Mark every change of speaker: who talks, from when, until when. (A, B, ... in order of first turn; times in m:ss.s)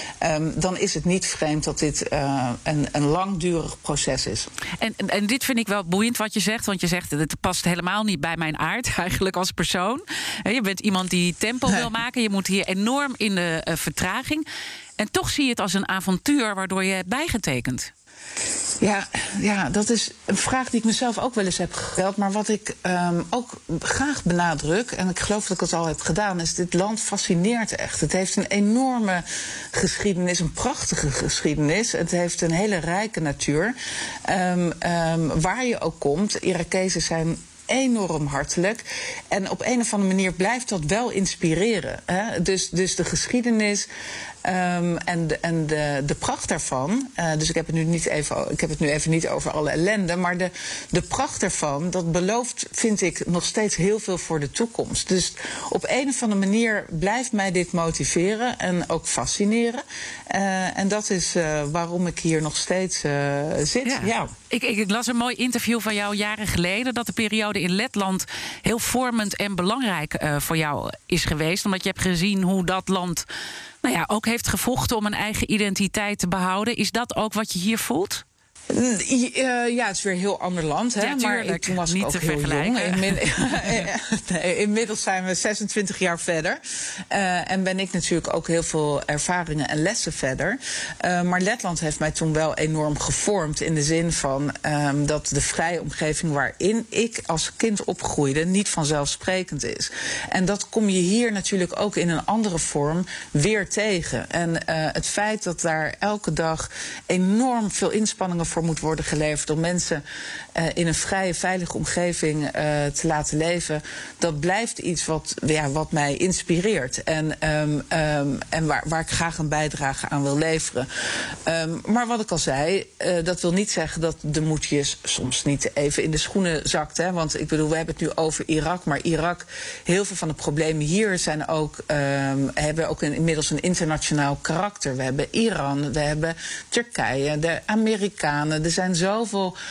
0:00.2-0:04.5 A
0:04.8-0:14.4 B
0:15.0-0:17.9 B
0:18.8-0:43.9 A
0:44.4-1:04.3 A
1:03.8-1:13.2 B
1:13.8-1:18.2 B
1:18.7-1:50.0 A
1:21.0-1:23.7 B
1:50.5-2:19.6 A